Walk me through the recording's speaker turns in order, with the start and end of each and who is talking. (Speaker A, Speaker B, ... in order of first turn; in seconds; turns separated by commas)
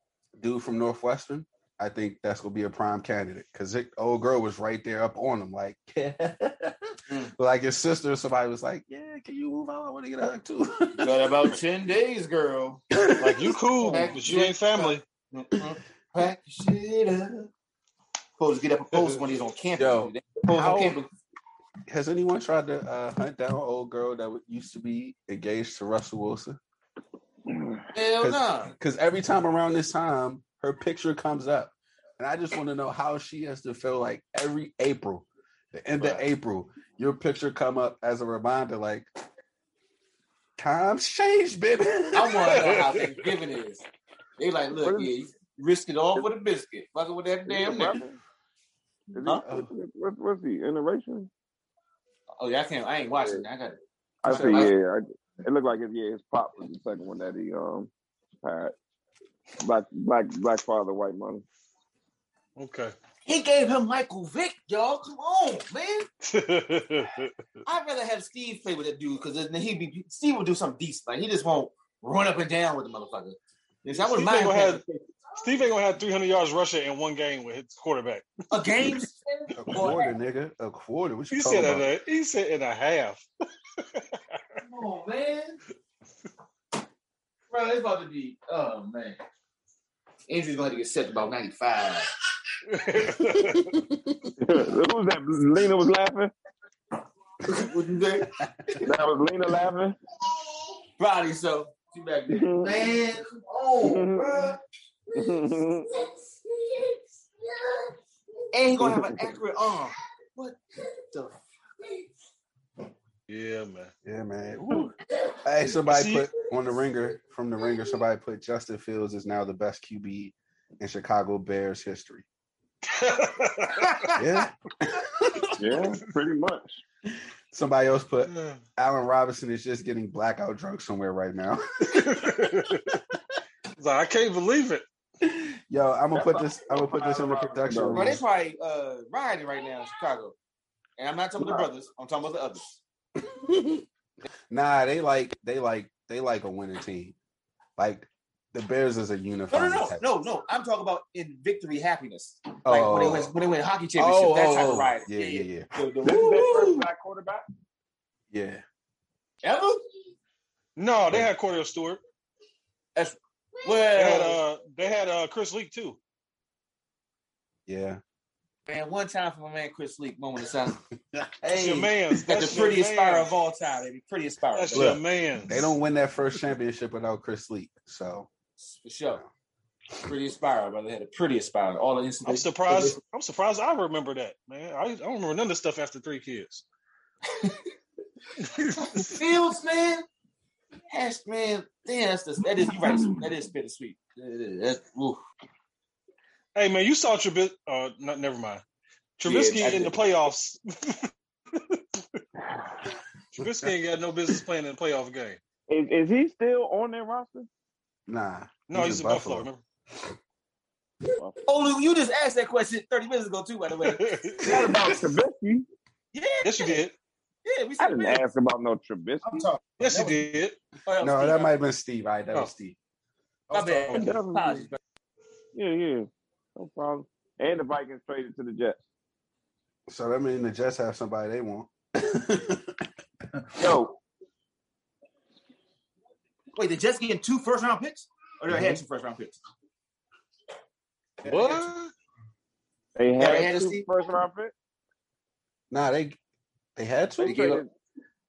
Speaker A: 0.4-11.6, Speaker B: 7.1-7.3, Speaker B: 11.0-12.8, Speaker A: 12.9-13.5, Speaker C: 13.2-15.0, Speaker B: 13.7-17.5, Speaker B: 18.4-21.1, Speaker A: 19.8-21.0, Speaker A: 21.9-26.6, Speaker B: 27.9-28.7, Speaker A: 28.2-39.1, Speaker B: 36.0-36.3, Speaker A: 40.6-42.6, Speaker B: 42.1-43.9, Speaker C: 42.5-43.3, Speaker B: 44.4-48.0, Speaker D: 44.8-45.1, Speaker D: 47.5-48.2, Speaker D: 49.1-51.3, Speaker A: 49.4-49.7, Speaker B: 52.4-54.7, Speaker D: 54.2-57.9, Speaker A: 54.3-54.7, Speaker D: 58.4-58.7, Speaker D: 59.6-61.5, Speaker C: 62.6-63.0, Speaker B: 63.2-66.1, Speaker C: 66.2-67.3, Speaker B: 67.7-75.2, Speaker C: 73.9-74.8, Speaker C: 75.4-79.0, Speaker B: 78.5-80.2, Speaker A: 79.5-81.9, Speaker C: 81.3-83.2, Speaker C: 83.8-84.4, Speaker B: 84.6-85.6, Speaker B: 87.5-89.2, Speaker B: 90.3-92.1, Speaker C: 92.7-93.7, Speaker A: 93.3-94.3, Speaker D: 94.4-96.3, Speaker B: 97.5-98.3, Speaker A: 98.2-98.8, Speaker D: 98.8-100.0, Speaker B: 101.0-104.6, Speaker D: 102.3-102.9, Speaker D: 103.8-104.5, Speaker D: 105.1-105.9, Speaker B: 106.6-107.0, Speaker B: 108.5-112.1, Speaker D: 108.8-109.3, Speaker C: 113.3-113.9, Speaker A: 114.0-122.3, Speaker C: 115.9-116.3, Speaker C: 122.9-124.2, Speaker B: 123.8-124.4, Speaker A: 124.2-125.6, Speaker D: 125.6-126.8, Speaker A: 127.1-133.0, Speaker C: 128.2-128.6, Speaker C: 131.9-133.0, Speaker C: 133.8-134.8, Speaker A: 135.2-138.2, Speaker D: 136.2-138.2, Speaker B: 137.9-140.4, Speaker B: 141.0-142.8, Speaker D: 141.4-141.7, Speaker A: 143.2-143.8, Speaker A: 144.5-147.2, Speaker A: 147.8-150.1, Speaker B: 149.5-156.8, Speaker A: 152.7-153.3, Speaker A: 154.0-156.8, Speaker D: 156.0-157.4, Speaker A: 158.3-158.6, Speaker B: 159.4-159.8, Speaker C: 160.8-162.0, Speaker B: 162.9-164.4, Speaker C: 163.9-166.0, Speaker A: 167.7-168.0, Speaker B: 168.7-170.8, Speaker A: 171.1-172.2, Speaker C: 171.5-173.3, Speaker B: 172.2-175.0, Speaker C: 174.6-175.6, Speaker A: 174.7-178.3, Speaker B: 178.6-179.2, Speaker B: 180.1-183.0, Speaker C: 182.2-186.7, Speaker B: 187.3-187.6, Speaker C: 188.4-189.2, Speaker B: 188.9-190.1, Speaker B: 190.9-195.2, Speaker C: 196.6-198.6, Speaker C: 199.2-201.8, Speaker B: 199.3-200.0, Speaker A: 203.4-203.7, Speaker C: 203.4-205.4, Speaker D: 205.7-207.5, Speaker A: 208.1-209.5, Speaker C: 208.7-209.6, Speaker B: 211.5-214.1, Speaker C: 213.8-214.7, Speaker A: 214.4-215.2, Speaker D: 214.4-215.7, Speaker B: 216.1-216.8, Speaker C: 216.4-216.9, Speaker B: 217.4-218.2, Speaker D: 217.8-219.5, Speaker E: 219.2-220.3, Speaker C: 219.8-220.6, Speaker B: 220.9-221.5, Speaker A: 221.0-222.8, Speaker E: 223.5-224.0, Speaker B: 223.5-224.8, Speaker D: 223.9-224.7, Speaker D: 225.5-228.8, Speaker A: 229.9-232.8, Speaker D: 233.6-234.0, Speaker B: 236.6-239.4, Speaker A: 238.5-238.8, Speaker E: 241.2-241.7, Speaker C: 241.2-241.9, Speaker D: 243.0-244.5, Speaker B: 243.2-243.8, Speaker A: 245.7-246.2, Speaker A: 246.8-247.6, Speaker B: 247.2-247.6, Speaker D: 247.3-247.7